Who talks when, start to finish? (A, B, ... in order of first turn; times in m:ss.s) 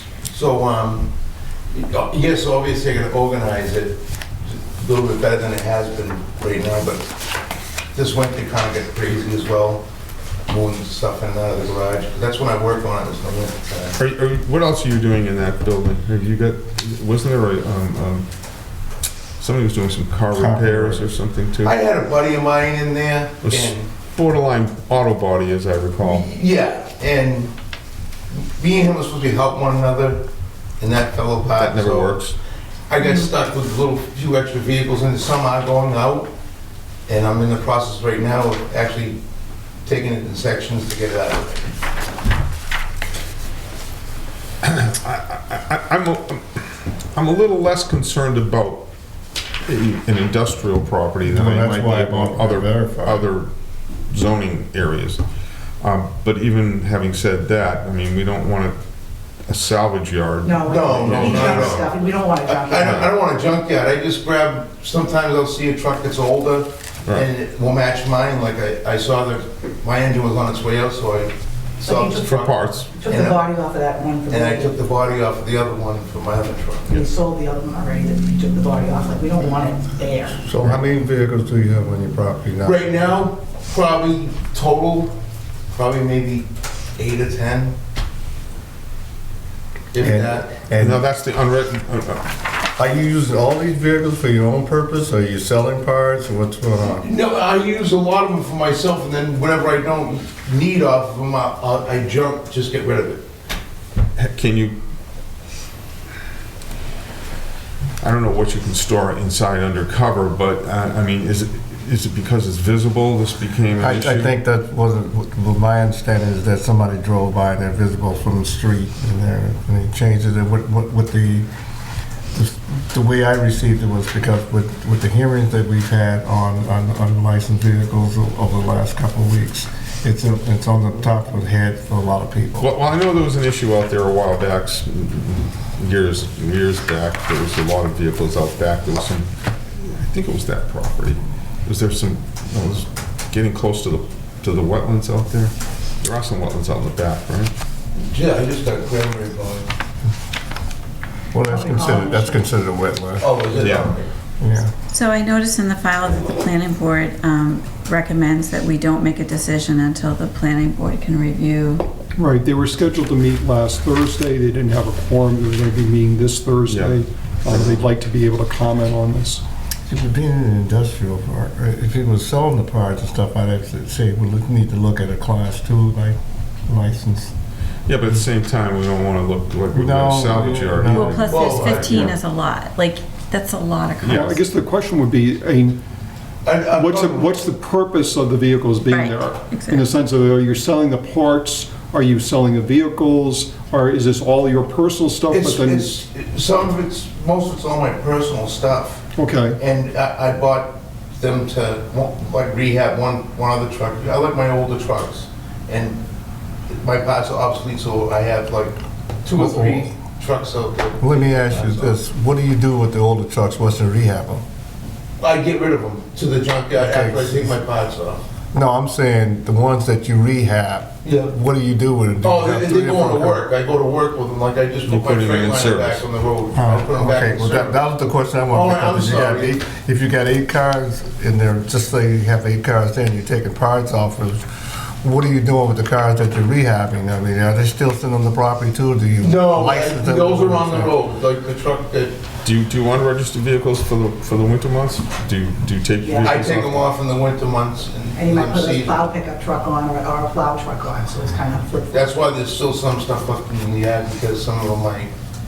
0:00.3-0:01.1 A
0:01.7-0:07.1 A
0:07.9-0:09.8 A
0:10.5-0:14.0 A
0:14.0-0:18.3 B
0:19.4-0:21.8 B
0:20.3-0:21.1 C
0:21.6-0:23.9 A
0:23.4-0:26.3 B
0:26.0-0:27.5 A
0:28.3-0:30.2 A
0:30.8-0:32.2 A
0:31.5-0:32.4 B
0:32.9-0:36.3 A
0:37.1-0:39.2 A
0:39.8-0:41.7 A
0:44.6-0:48.9 B
0:49.6-0:53.5 B
0:51.2-0:53.3 C
0:54.1-0:55.2 B
0:55.8-0:58.8 B
0:59.5-1:02.0 B
1:00.4-1:03.0 D
1:00.7-1:01.9 A
1:02.4-1:13.4 A
1:02.8-1:03.1 B
1:11.8-1:14.8 D
1:12.3-1:12.9 B
1:14.3-1:17.1 A
1:16.9-1:20.4 D
1:20.4-1:23.0 C
1:22.6-1:25.1 A
1:25.7-1:27.8 A
1:29.9-1:30.6 A
1:30.0-1:31.0 C
1:30.8-1:32.2 B
1:32.8-1:37.1 C
1:36.9-1:43.2 A
1:44.2-1:44.8 B
1:48.0-1:54.4 B
1:53.8-2:01.5 C
2:02.3-2:12.7 C
2:12.6-2:27.5 B
2:28.0-2:29.7 A
2:31.3-2:33.3 C
2:31.5-2:32.4 D
2:33.2-2:34.1 A
2:33.6-2:33.9 B
2:34.4-2:34.7 C
2:34.9-2:41.8 E
2:42.2-2:49.4 F
2:46.7-2:47.0 B
2:49.9-2:57.3 C
2:57.9-3:02.1 B
2:59.7-3:01.6 C
3:00.9-3:04.4 E
3:01.2-3:02.2 A
3:04.0-3:04.3 B
3:04.1-3:05.8 F
3:06.4-3:07.3 A
3:06.7-3:15.9 F
3:08.9-3:09.8 E
3:15.3-3:19.0 A
3:19.2-3:19.6 F
3:19.6-3:26.0 A
3:26.7-3:32.0 A
3:29.4-3:29.9 C
3:31.0-3:34.4 C
3:35.2-3:38.2 A
3:36.8-3:37.5 C
3:38.5-3:43.4 C
3:41.0-3:41.3 A
3:42.2-3:47.8 A
3:44.9-3:46.1 B
3:46.5-3:54.4 C
3:48.5-3:49.5 A
3:55.0-4:01.0 C
3:59.2-4:02.2 A
4:02.4-4:06.9 B
4:06.0-4:06.3 D
4:06.2-4:09.0 A
4:08.1-4:12.1 D
4:11.9-4:15.1 A